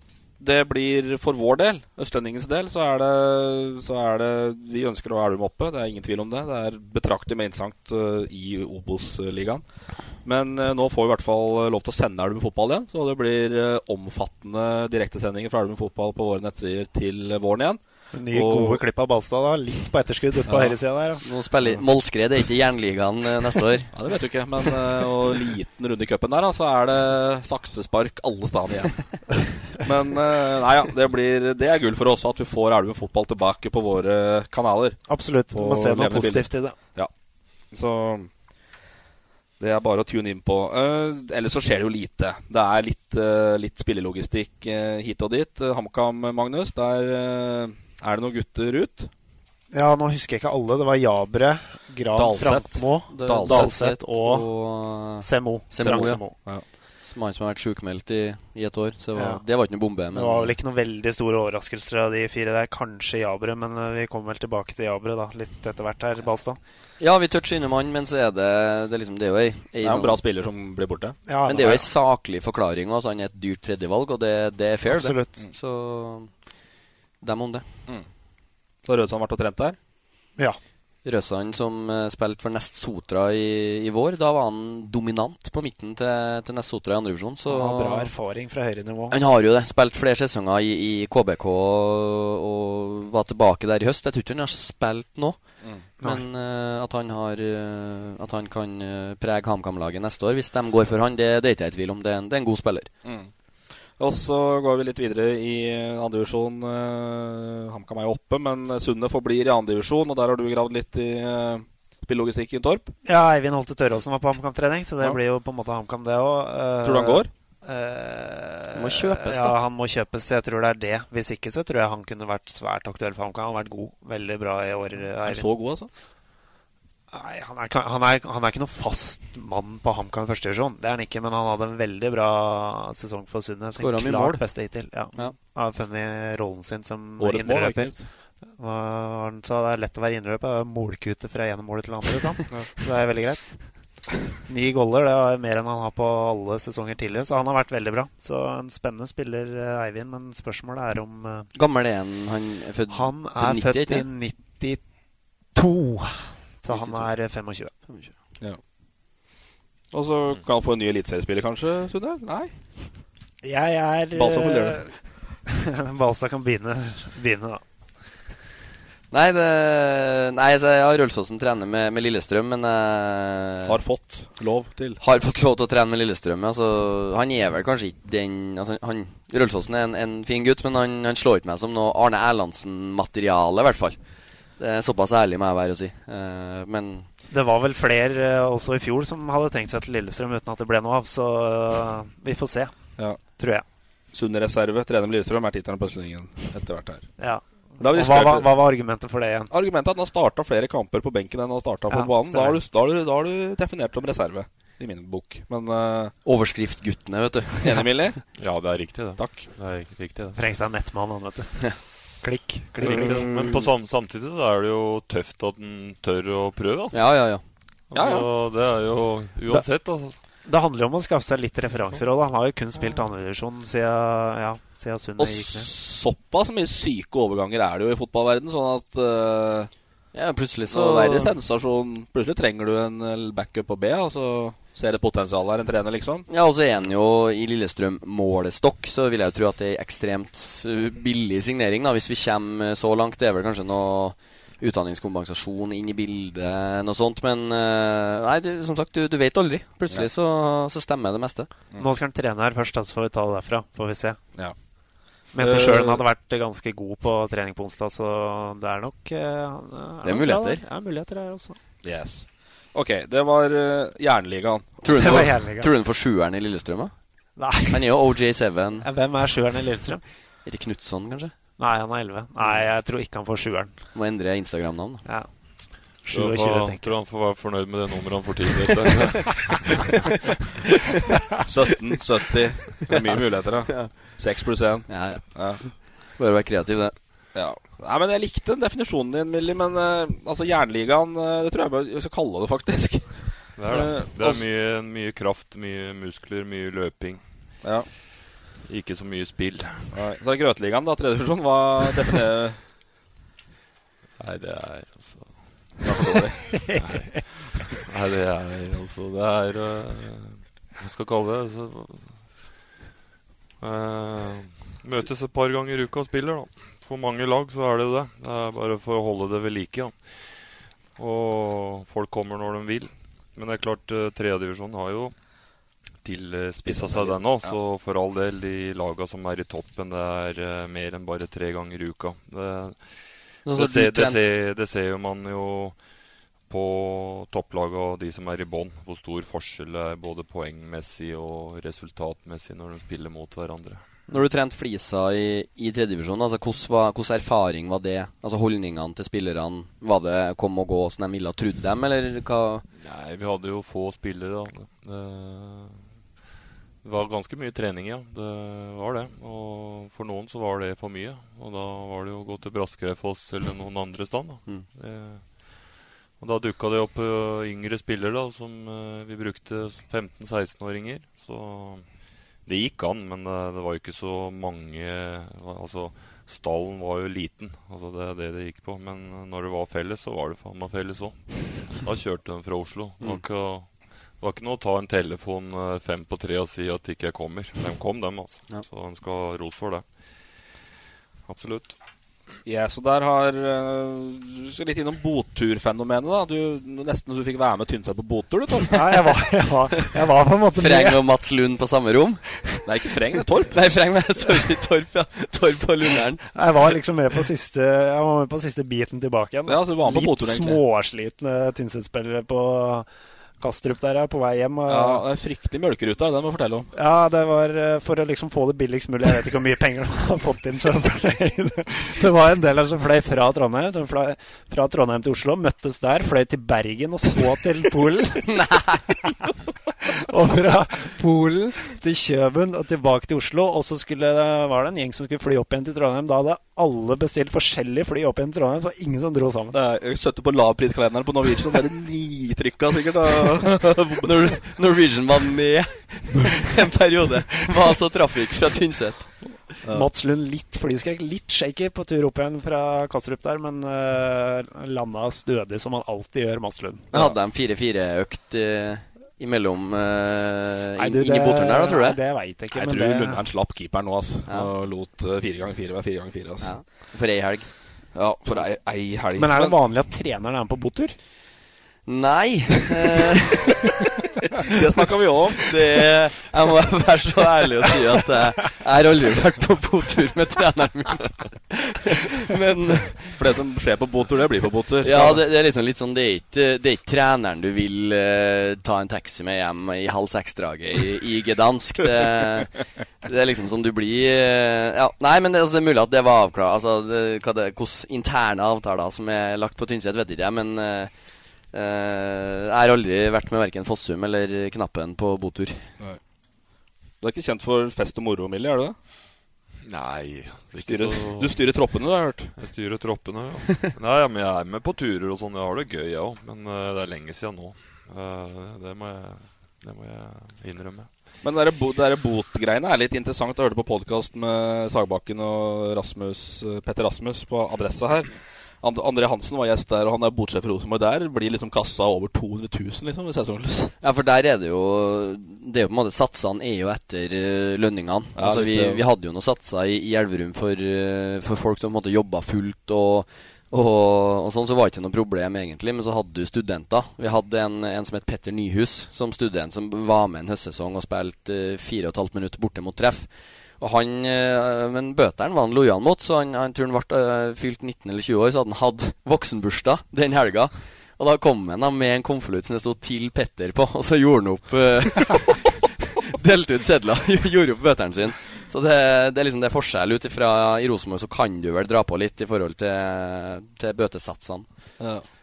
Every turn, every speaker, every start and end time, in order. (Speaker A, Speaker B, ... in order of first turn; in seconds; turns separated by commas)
Speaker A: 0.4-18.8, Speaker B: 18.1-21.2, Speaker A: 20.4-20.8, Speaker C: 21.2-23.9, Speaker A: 23.9-37.1, Speaker B: 35.1-36.8, Speaker A: 37.7-38.3, Speaker A: 39.6-49.1, Speaker B: 49.7-56.4, Speaker A: 52.1-53.8, Speaker C: 53.1-60.5, Speaker A: 55.8-56.6, Speaker B: 59.1-59.4, Speaker B: 60.1-66.6, Speaker C: 67.0-70.2, Speaker A: 69.8-71.2, Speaker B: 71.2-71.9, Speaker C: 71.5-76.6, Speaker B: 74.9-75.4, Speaker C: 77.2-77.7, Speaker A: 78.8-79.8, Speaker C: 81.0-88.1, Speaker B: 87.5-89.2, Speaker C: 89.1-102.9, Speaker A: 95.6-95.8, Speaker B: 96.0-96.2, Speaker A: 103.0-103.3, Speaker A: 104.0-112.9, Speaker B: 113.0-125.5, Speaker A: 116.8-117.3, Speaker C: 118.7-119.6, Speaker A: 125.2-125.9, Speaker B: 127.1-151.5, Speaker C: 133.7-135.3, Speaker A: 137.2-138.1, Speaker A: 142.5-142.7, Speaker C: 151.5-154.1, Speaker B: 152.9-157.7, Speaker C: 156.7-157.0, Speaker C: 157.8-158.1, Speaker A: 159.9-162.5, Speaker B: 163.4-168.2, Speaker A: 164.1-164.9, Speaker C: 169.1-173.8, Speaker A: 173.6-175.0, Speaker C: 175.0-187.1, Speaker B: 187.3-193.7, Speaker A: 192.9-193.2, Speaker A: 194.1-197.1, Speaker B: 197.2-199.5, Speaker A: 197.8-198.9, Speaker A: 199.5-206.1, Speaker B: 201.9-202.6, Speaker C: 206.2-207.9, Speaker A: 207.6-208.3, Speaker D: 208.3-210.4, Speaker A: 209.2-209.5, Speaker B: 210.3-213.6, Speaker D: 212.8-217.1, Speaker C: 216.9-217.4, Speaker D: 217.9-220.2, Speaker A: 217.9-218.3, Speaker B: 219.5-225.7, Speaker A: 225.2-229.7, Speaker C: 230.1-231.3, Speaker A: 230.7-236.3, Speaker C: 236.3-251.5, Speaker B: 251.8-254.2, Speaker A: 254.3-254.6, Speaker A: 255.1-256.0, Speaker B: 255.3-261.6, Speaker C: 260.0-260.6, Speaker A: 261.8-265.2, Speaker C: 264.8-268.9, Speaker B: 264.9-265.7, Speaker B: 267.4-267.9, Speaker B: 268.8-270.1, Speaker C: 270.2-271.4, Speaker B: 271.6-273.8, Speaker C: 273.9-275.0, Speaker B: 275.0-276.9, Speaker D: 276.1-280.1, Speaker A: 281.5-285.6, Speaker C: 283.6-284.2, Speaker C: 284.8-286.9, Speaker A: 287.3-294.4, Speaker D: 293.6-297.2, Speaker A: 297.6-297.9, Speaker D: 298.6-299.9, Speaker A: 299.9-302.6, Speaker D: 304.2-305.8, Speaker A: 305.8-306.4, Speaker B: 306.6-307.0, Speaker D: 306.8-312.4, Speaker D: 313.6-325.1, Speaker D: 326.0-335.8, Speaker A: 326.6-327.5, Speaker C: 333.4-334.2, Speaker D: 336.5-343.8, Speaker C: 344.1-352.6, Speaker D: 352.8-356.0, Speaker D: 356.8-390.6, Speaker D: 391.2-391.8, Speaker A: 392.4-399.1, Speaker B: 398.7-401.0, Speaker C: 400.6-402.6, Speaker A: 402.6-403.9, Speaker C: 403.5-406.2, Speaker B: 406.3-415.0, Speaker A: 409.4-410.6, Speaker A: 414.7-416.7, Speaker B: 416.7-428.6, Speaker B: 429.9-439.6, Speaker A: 439.5-444.1, Speaker C: 444.0-449.2, Speaker A: 449.6-449.9, Speaker B: 449.7-456.9, Speaker A: 456.9-457.1, Speaker C: 456.9-462.0, Speaker B: 460.8-463.2, Speaker A: 462.5-466.7, Speaker C: 464.2-464.5, Speaker C: 466.4-467.9, Speaker A: 467.9-469.6, Speaker B: 469.1-471.0, Speaker C: 471.8-473.4, Speaker A: 474.5-475.4, Speaker C: 475.4-483.2, Speaker A: 483.2-485.3, Speaker C: 484.8-505.8, Speaker A: 507.0-508.8, Speaker D: 509.6-511.5, Speaker A: 510.6-512.4, Speaker D: 512.4-520.9, Speaker A: 521.2-533.7, Speaker C: 533.8-565.6, Speaker A: 538.1-538.8, Speaker C: 566.1-574.5, Speaker A: 574.8-575.0